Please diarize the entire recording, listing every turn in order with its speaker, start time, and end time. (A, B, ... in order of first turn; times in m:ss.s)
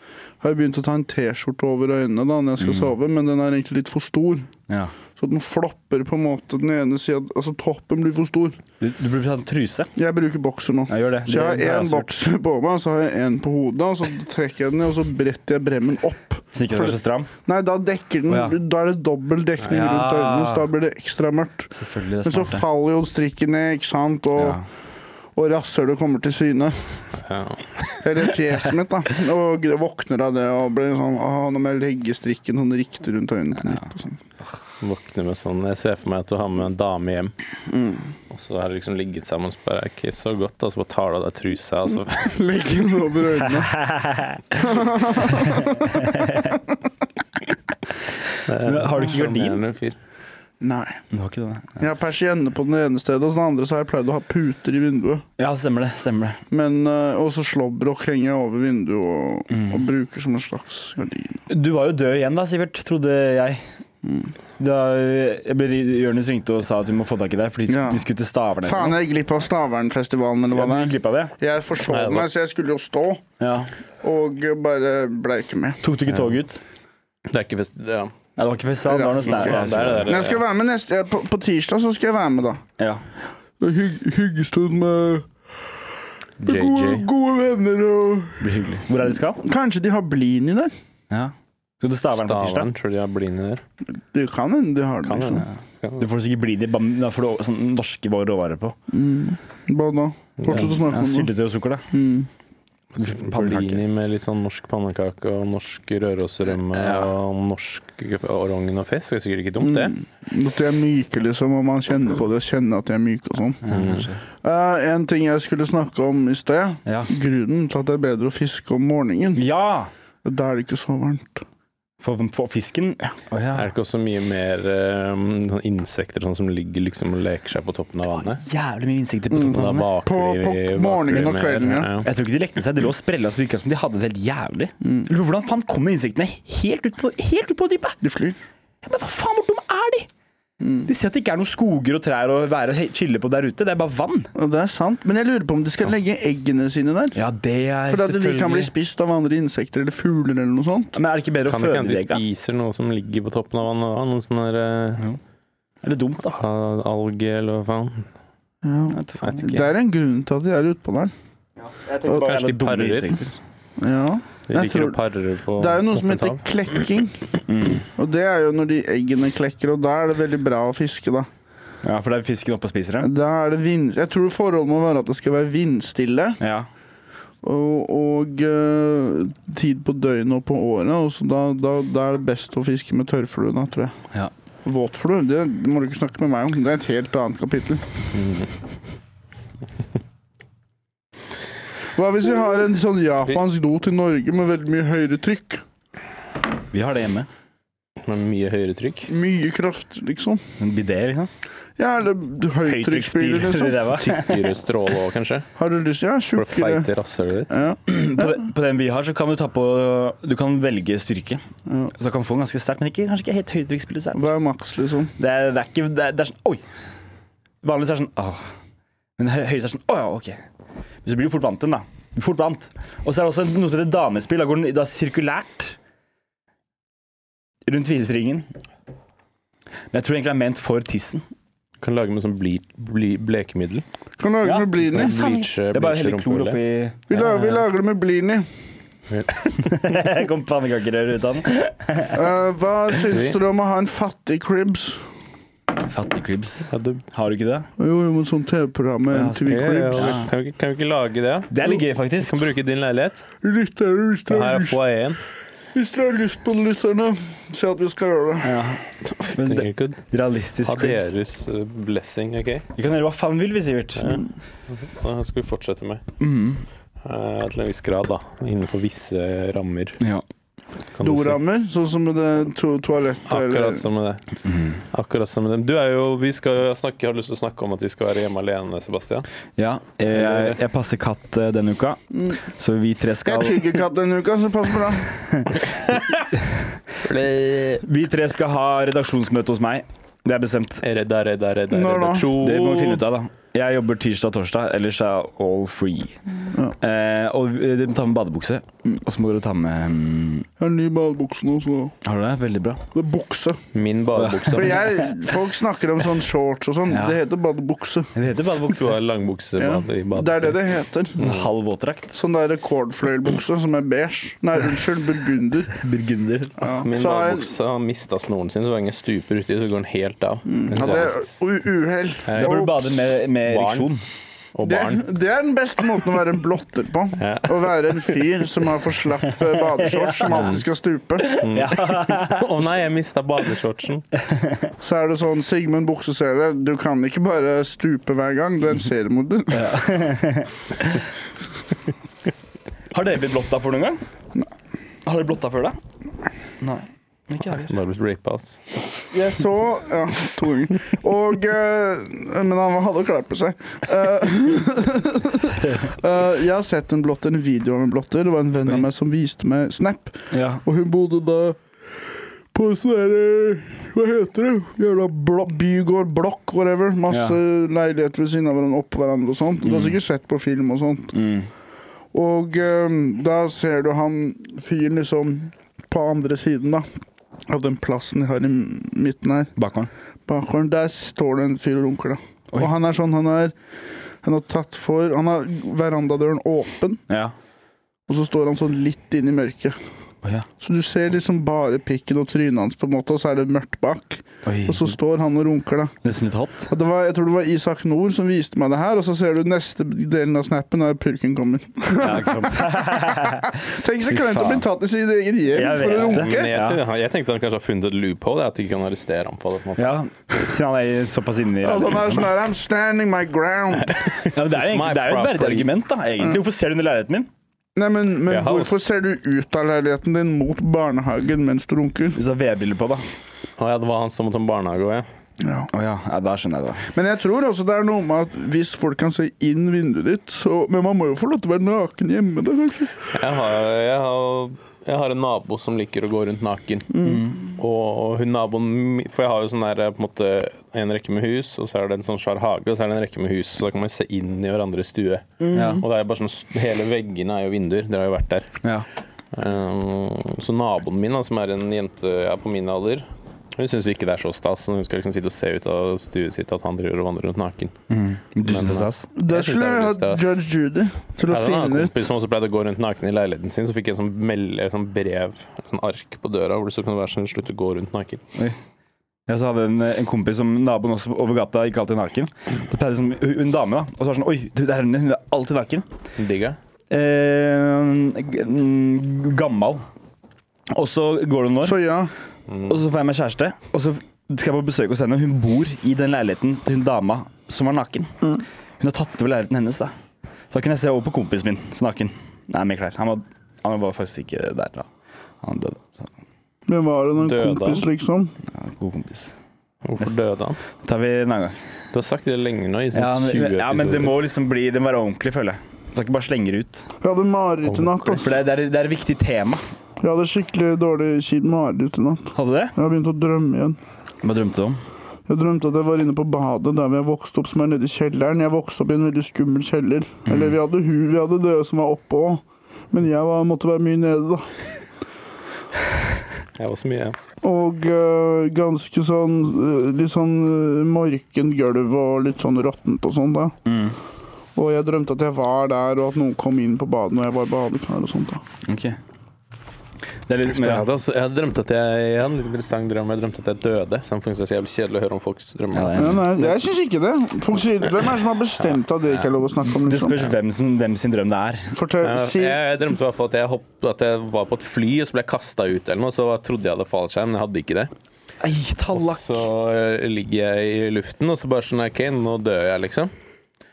0:00.4-0:04.5 A
0:02.6-0:02.9 B
0:05.2-0:08.6 A
0:08.8-0:09.9 B
0:10.0-0:21.7 A
0:10.9-0:12.1 B
0:16.5-0:17.3 B
0:18.3-0:18.6 B
0:19.6-0:20.7 B
0:21.7-0:22.6 B
0:22.2-0:24.6 A
0:24.4-0:24.6 B
0:25.4-0:27.0 A
0:27.2-0:28.0 C
0:28.0-0:34.2 A
0:33.6-0:33.8 B
0:34.8-0:37.3 C
0:37.7-0:38.1 A
0:38.3-0:42.4 C
0:42.2-0:43.8 A
0:43.5-0:44.6 B
0:44.6-0:46.6 A
0:45.3-0:46.6 B
0:48.4-0:50.0 C
0:48.6-0:49.6 B
0:50.6-0:51.0 A
0:51.1-0:51.9 B
0:51.8-0:55.2 A
0:55.4-0:56.4 B
0:56.5-1:01.4 A
0:59.5-0:59.8 B
1:01.5-1:03.6 B
1:04.0-1:04.3 A
1:04.6-1:09.0 B
1:07.7-1:08.0 A
1:08.6-1:13.2 A
1:10.5-1:11.3 B
1:11.9-1:12.3 C
1:13.4-1:13.7 B
1:14.0-1:15.8 A
1:15.8-1:16.6 B
1:17.3-1:18.1 C
1:18.4-1:20.2 B
1:18.9-1:22.6 A
1:19.2-1:20.4 C
1:23.6-1:25.3 A
1:26.4-1:27.1 C
1:26.4-1:28.5 A
1:28.4-1:29.4 B
1:29.4-1:30.7 A
1:31.1-1:32.7 B
1:32.1-1:33.6 C
1:33.9-1:35.4 A
1:35.0-1:36.1 C
1:36.0-1:38.8 B
1:38.9-1:41.3 A
1:40.4-1:40.8 C
1:40.5-1:41.9 B
1:41.9-1:42.3 A
1:42.9-1:49.9 C
1:43.0-1:43.8 B
1:46.7-1:47.1 B
1:49.6-1:53.7 A
1:53.6-1:54.2 B
1:53.7-1:54.1 C
1:54.4-1:59.4 A
1:59.3-1:59.9 B
2:00.2-2:01.4 A
2:02.0-2:03.7 B
2:03.5-2:08.4 C
2:08.1-2:09.9 B
2:09.3-2:11.9 A
2:09.4-2:12.1 C
2:12.0-2:18.0 B
2:14.8-2:15.1 A
2:18.0-2:18.4 A
2:18.8-2:20.1 B
2:20.6-2:20.9 A
2:20.9-2:24.3 B
2:24.3-2:27.2 A
2:27.1-2:28.7 B
2:27.9-2:31.0 A
2:30.9-2:32.2 B
2:31.5-2:35.0 C
2:35.8-2:36.3 B
2:36.2-2:38.1 C
2:38.6-2:41.1 A
2:38.9-2:39.5 B
2:39.2-2:39.7 C
2:41.6-2:43.3 B
2:42.1-2:43.2 C
2:43.8-2:45.0 A
2:44.5-2:46.4 C
2:45.6-2:47.2 A
2:47.5-2:47.8 B
2:48.0-2:51.3 A
2:51.8-2:53.1 B
2:53.0-2:56.4 A
2:56.4-2:56.7 B
2:57.4-3:04.0 A
3:04.6-3:07.8 A
3:08.1-3:08.5 C
3:11.9-3:15.6 A
3:16.7-3:17.3 B
3:18.0-3:19.1 C
3:19.1-3:20.4 A
3:20.6-3:21.3 B
3:21.8-3:23.9 A
3:22.6-3:24.4 B
3:24.0-3:25.5 C
3:25.6-3:26.9 A
3:26.4-3:27.6 C
3:27.5-3:28.4 A
3:27.9-3:31.4 B
3:31.7-3:31.9 A
3:31.9-3:34.3 B
3:34.1-3:35.1 A
3:35.2-3:36.6 B
3:37.6-3:38.5 B
3:39.2-3:40.4 B
3:41.0-3:45.8 B
3:47.6-3:48.5 B
3:49.9-3:51.2 B
3:51.8-3:53.8 C
3:54.2-3:55.2 A
3:54.4-3:57.3 B
3:54.8-3:56.6 C
3:57.1-3:58.4 A
3:57.1-3:57.6 C
3:59.1-4:00.0 C
3:59.6-4:02.2 B
4:02.1-4:05.0 A
4:03.1-4:03.4 C
4:05.8-4:07.7 B
4:06.7-4:07.0 C
4:07.8-4:10.2 A
4:09.1-4:10.3 B
4:09.5-4:13.3 C
4:11.5-4:12.4 B
4:13.4-4:14.8 A
4:14.3-4:15.2 C
4:15.7-4:18.6 A
4:18.4-4:21.1 B
4:19.0-4:20.0 C
4:20.6-4:22.7 C
4:22.7-4:24.2 B
4:24.0-4:26.0 C
4:26.2-4:26.6 B
4:27.0-4:30.0 C
4:31.0-4:31.4 C
4:31.0-4:33.8 A
4:33.3-4:34.2 C
4:34.4-4:34.8 B
4:34.9-4:39.2 C
4:39.6-4:43.8 B
4:40.1-4:40.6 C
4:43.2-4:45.2 A
4:45.5-4:46.3 C
4:47.0-4:47.8 C
4:47.8-4:50.8 B
4:50.8-4:53.0 C
4:51.7-4:52.4 A
4:52.3-4:56.2 B
4:56.8-5:00.5 B
5:00.6-5:02.0 A
5:02.0-5:02.8 B
5:02.9-5:03.6 A
5:03.7-5:05.0 C
5:04.1-5:05.0 B
5:04.5-5:08.1 A
5:06.9-5:07.2 B
5:08.1-5:09.0 B
5:08.4-5:10.6 C
5:09.6-5:11.2 A
5:11.2-5:11.5 C
5:11.2-5:12.1 B
5:12.1-5:15.8 A
5:15.7-5:16.6 B
5:16.6-5:17.5 A
5:16.8-5:21.4 C
5:20.5-5:23.1 A
5:22.2-5:22.6 C
5:22.4-5:24.0 B
5:23.4-5:23.9 C
5:24.5-5:25.0 C
5:24.6-5:31.4 A
5:27.2-5:27.7 C
5:29.4-5:30.6 B
5:30.3-5:30.6 C
5:31.2-5:32.7 B
5:31.4-5:34.0 C
5:34.2-5:34.7 B
5:34.8-5:39.7 A
5:39.5-5:41.0 B
5:42.9-5:44.0 B
5:45.0-5:45.8 B
5:46.6-5:47.7 B
5:47.6-5:48.6 C
5:49.1-6:01.6 A
6:00.3-6:00.6 B
6:02.5-6:11.1 A
6:07.1-6:07.4 B
6:09.6-6:10.0 B
6:11.1-6:11.5 B
6:12.1-6:16.8 A
6:17.5-6:19.5 A
6:19.6-6:19.9 B
6:20.3-6:23.5 A
6:24.2-6:27.0 A
6:27.1-6:27.3 B
6:28.1-6:29.8 A
6:30.2-6:30.5 B
6:30.6-6:36.0 A
6:34.4-6:34.9 B
6:36.0-6:36.7 B
6:36.7-6:46.5 A
6:42.0-6:43.5 B
6:44.1-6:44.6 B
6:45.5-6:46.8 B
6:46.0-6:50.0 C
6:49.8-6:52.3 B
6:51.6-6:54.2 A
6:53.8-6:55.7 C
6:54.3-6:57.3 B
6:57.8-7:02.2 A
6:58.3-6:58.8 C
7:02.1-7:03.0 B
7:03.6-7:05.1 C
7:05.4-7:05.7 A
7:05.7-7:06.8 B
7:06.9-7:13.1 A
7:13.1-7:17.0 C
7:16.9-7:17.3 A
7:17.0-7:17.4 B
7:17.5-7:28.6 C
7:25.4-7:25.8 A
7:25.5-7:25.8 B
7:29.3-7:37.8 C
7:37.9-7:39.1 B
7:38.4-7:40.3 C
7:39.2-7:41.9 A
7:41.3-7:48.2 C
7:49.3-7:55.8 B
7:56.2-7:56.6 C
7:56.9-7:59.8 B
8:00.7-8:01.8 B
8:01.6-8:02.1 A
8:02.5-8:02.8 C
8:02.7-8:08.1 B
8:08.8-8:09.9 B
8:10.5-8:14.9 B
8:15.4-8:16.1 B
8:16.7-8:18.4 A
8:17.2-8:17.9 C
8:18.4-8:19.4 B
8:19.8-8:20.6 C
8:20.8-8:21.6 B
8:21.9-8:24.2 C
8:22.9-8:26.9 B
8:27.0-8:28.4 A
8:27.6-8:28.1 C
8:28.1-8:29.6 B
8:30.0-8:33.8 A
8:32.3-8:32.7 B
8:34.2-8:34.8 B
8:35.3-8:44.5 A
8:40.2-8:40.6 B
8:46.6-8:47.2 C
8:47.4-8:53.6 A
8:53.6-8:54.0 B
8:54.6-8:58.4 A
8:58.6-8:59.0 B
9:00.3-9:00.9 B
9:00.4-9:06.2 C
9:05.7-9:06.5 B
9:06.0-9:10.2 A
9:09.8-9:11.7 B
9:11.7-9:12.6 A
9:12.0-9:17.9 C
9:18.4-9:19.4 B
9:18.9-9:23.1 C